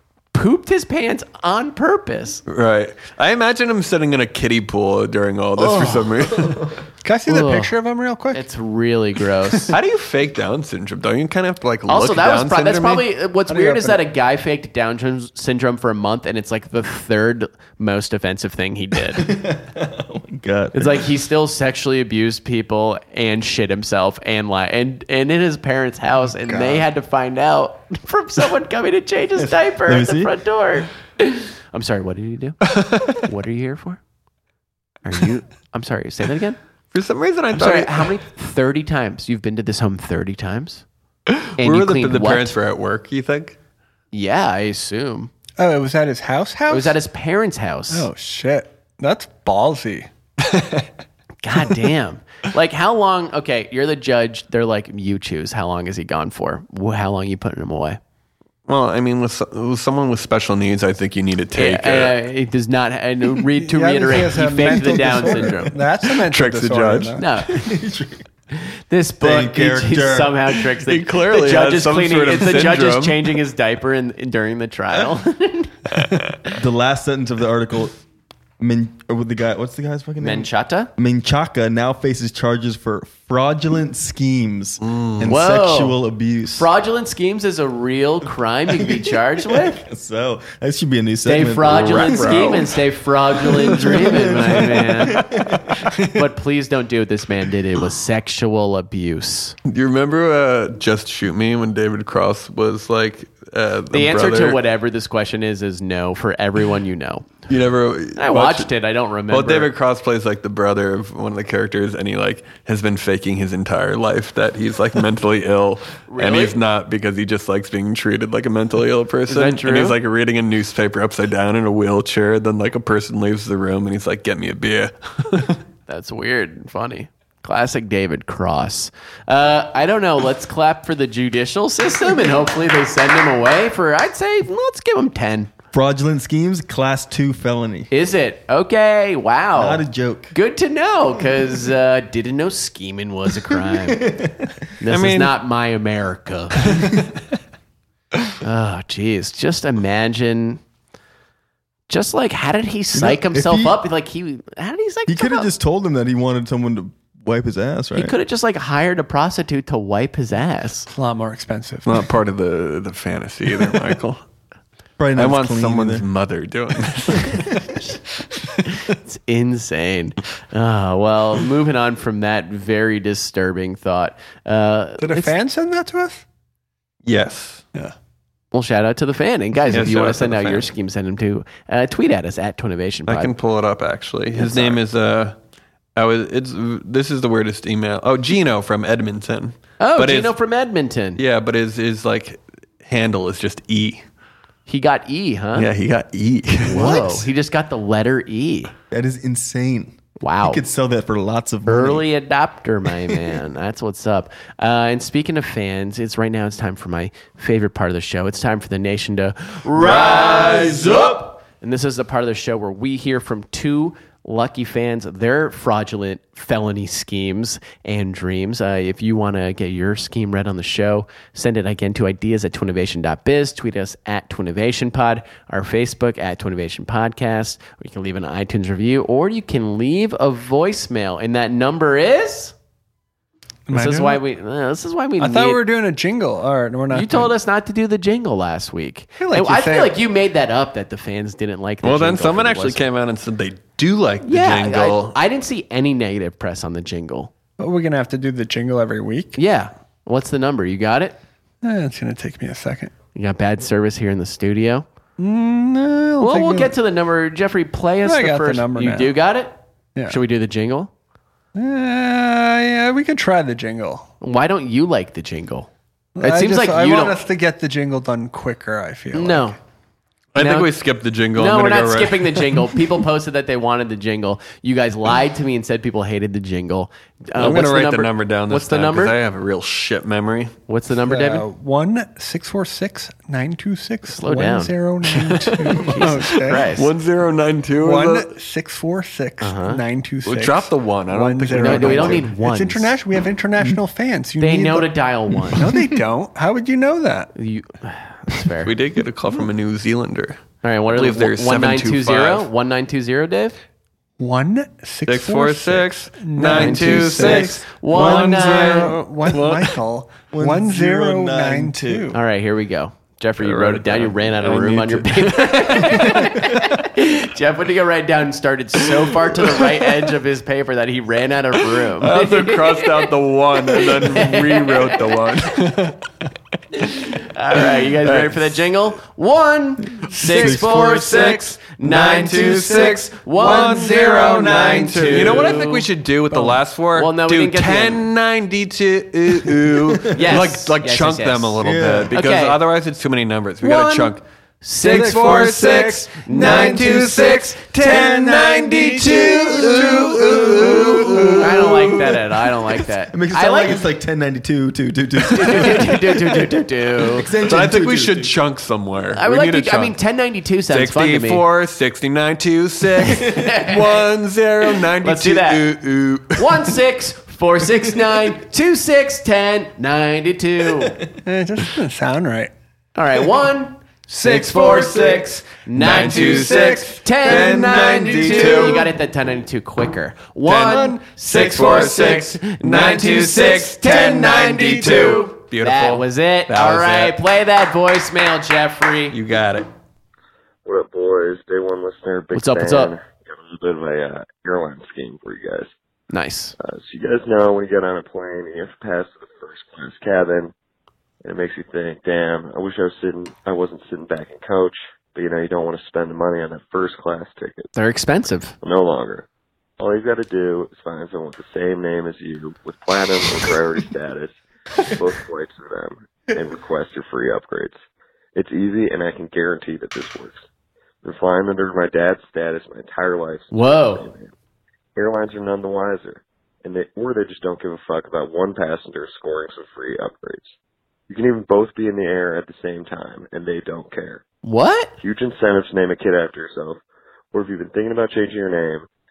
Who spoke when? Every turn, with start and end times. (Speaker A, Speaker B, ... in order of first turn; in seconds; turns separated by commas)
Speaker A: 0.3-2.4, Speaker B: 2.5-6.7, Speaker C: 5.6-6.7, Speaker D: 7.0-8.4, Speaker A: 7.3-7.7, Speaker A: 8.3-9.7, Speaker B: 9.7-13.1, Speaker A: 11.9-19.2, Speaker D: 13.5-14.0, Speaker C: 19.1-21.1, Speaker A: 20.7-32.6, Speaker C: 29.4-30.3, Speaker B: 32.7-33.2, Speaker A: 33.1-34.0, Speaker A: 35.0-36.6, Speaker B: 36.9-38.2, Speaker A: 37.5-40.8, Speaker B: 41.3-43.6, Speaker A: 41.6-42.5, Speaker A: 44.1-45.3, Speaker D: 45.6-47.0, Speaker A: 46.7-48.1, Speaker D: 47.9-50.1, Speaker B: 50.5-50.9, Speaker A: 51.4-58.0, Speaker B: 58.7-62.1, Speaker A: 61.5-65.7, Speaker D: 63.6-67.2, Speaker C: 64.4-65.6, Speaker B: 66.2-67.2, Speaker A: 67.2-67.6, Speaker C: 67.5-68.2, Speaker A: 68.5-75.8, Speaker C: 69.2-70.6, Speaker B: 70.8-73.3, Speaker B: 75.9-76.3, Speaker C: 76.5-78.0, Speaker C: 78.6-86.7, Speaker A: 80.2-80.9, Speaker B: 84.8-85.4, Speaker A: 85.2-86.0, Speaker A: 86.5-89.8, Speaker C: 88.7-92.8, Speaker A: 91.2-95.2, Speaker B: 91.7-92.7, Speaker C: 93.3-96.0, Speaker B: 93.9-94.5, Speaker A: 96.1-99.6, Speaker B: 99.7-104.6, Speaker A: 103.9-107.3, Speaker B: 107.5-108.7, Speaker A: 108.2-109.7, Speaker B: 109.3-125.6, Speaker A: 116.1-116.6, Speaker A: 119.3-120.0, Speaker A: 125.9-135.5, Speaker C: 135.7-137.9, Speaker A: 137.9-144.1, Speaker C: 139.5-140.3, Speaker C: 143.5-144.5, Speaker A: 144.8-146.6, Speaker B: 144.9-145.3, Speaker B: 146.7-147.1, Speaker A: 148.4-150.6, Speaker A: 151.9-155.5, Speaker C: 152.9-153.8, Speaker C: 155.1-158.2, Speaker A: 157.9-160.9, Speaker D: 160.9-162.1, Speaker B: 161.8-164.2, Speaker C: 165.0-166.0, Speaker B: 165.2-167.5, Speaker C: 167.1-167.6, Speaker A: 168.6-175.3, Speaker D: 175.0-176.2, Speaker B: 177.0-177.6, Speaker A: 178.5-183.3, Speaker B: 179.7-180.7, Speaker B: 183.1-185.4, Speaker A: 184.4-184.8, Speaker B: 185.9-190.3, Speaker A: 189.8-191.2, Speaker B: 191.2-194.0, Speaker A: 194.7-195.7, Speaker B: 195.5-197.2, Speaker A: 196.6-198.7, Speaker C: 196.7-197.0, Speaker C: 198.9-202.0, Speaker A: 200.2-200.6, Speaker A: 201.6-232.5, Speaker B: 209.8-211.2, Speaker D: 233.7-234.2, Speaker A: 233.7-235.6, Speaker D: 235.2-237.3, Speaker A: 236.9-242.8, Speaker D: 239.2-240.0, Speaker B: 241.8-245.2, Speaker A: 244.2-247.3, Speaker D: 247.6-249.4, Speaker A: 249.3-251.2, Speaker D: 251.6-252.9, Speaker A: 253.1-254.8, Speaker D: 255.2-256.7, Speaker A: 256.2-259.5, Speaker D: 258.0-259.1, Speaker A: 260.1-260.9, Speaker D: 261.5-264.1, Speaker A: 264.2-267.2, Speaker D: 266.1-269.6, Speaker A: 269.1-269.6, Speaker B: 270.3-272.6, Speaker A: 270.4-270.7, Speaker A: 271.3-279.2, Speaker B: 277.4-280.5, Speaker A: 280.7-281.4, Speaker D: 281.1-286.7, Speaker A: 284.1-284.7, Speaker B: 285.1-288.3, Speaker A: 285.8-286.9, Speaker D: 287.8-294.9, Speaker A: 289.4-289.8, Speaker B: 290.2-292.2, Speaker A: 291.6-292.9, Speaker A: 294.4-295.6, Speaker D: 295.5-297.3, Speaker A: 297.4-298.7, Speaker B: 298.6-302.5, Speaker A: 300.6-303.6, Speaker D: 304.2-312.2, Speaker B: 305.1-309.6, Speaker A: 306.5-308.9, Speaker C: 310.3-312.1, Speaker A: 312.1-323.1, Speaker B: 313.4-316.3, Speaker B: 321.9-326.1, Speaker A: 323.7-325.3, Speaker A: 326.8-335.8, Speaker B: 327.5-328.7, Speaker B: 330.1-344.2, Speaker C: 330.3-331.0, Speaker D: 333.4-335.7, Speaker D: 336.3-336.6, Speaker A: 336.9-338.0, Speaker C: 339.5-340.4, Speaker A: 340.1-342.6, Speaker C: 341.6-342.1, Speaker A: 343.6-347.4, Speaker B: 344.8-352.0, Speaker D: 344.8-351.3, Speaker C: 347.9-352.0, Speaker A: 351.4-353.9, Speaker C: 353.1-358.3, Speaker A: 355.2-357.3, Speaker B: 357.4-359.9, Speaker A: 359.1-361.4, Speaker B: 360.7-366.7, Speaker A: 363.0-364.0, Speaker A: 365.0-365.7, Speaker A: 366.4-371.0, Speaker D: 371.2-372.5, Speaker A: 372.9-389.2, Speaker D: 374.2-375.2, Speaker B: 374.2-378.9, Speaker D: 375.8-378.8, Speaker B: 380.4-387.2, Speaker D: 380.7-381.0, Speaker D: 383.9-385.2, Speaker B: 389.1-389.7, Speaker E: 390.6-395.7, Speaker A: 392.3-392.9, Speaker A: 396.1-396.5, Speaker E: 396.6-400.5, Speaker E: 401.2-407.7, Speaker A: 407.7-408.5, Speaker E: 408.6-409.2, Speaker E: 409.8-414.4, Speaker E: 414.9-417.8, Speaker E: 418.3-420.4, Speaker E: 421.0-424.3, Speaker A: 423.5-424.1, Speaker E: 424.9-430.5, Speaker E: 431.1-434.2, Speaker A: 434.4-434.9, Speaker E: 435.0-436.8, Speaker E: 437.3-438.9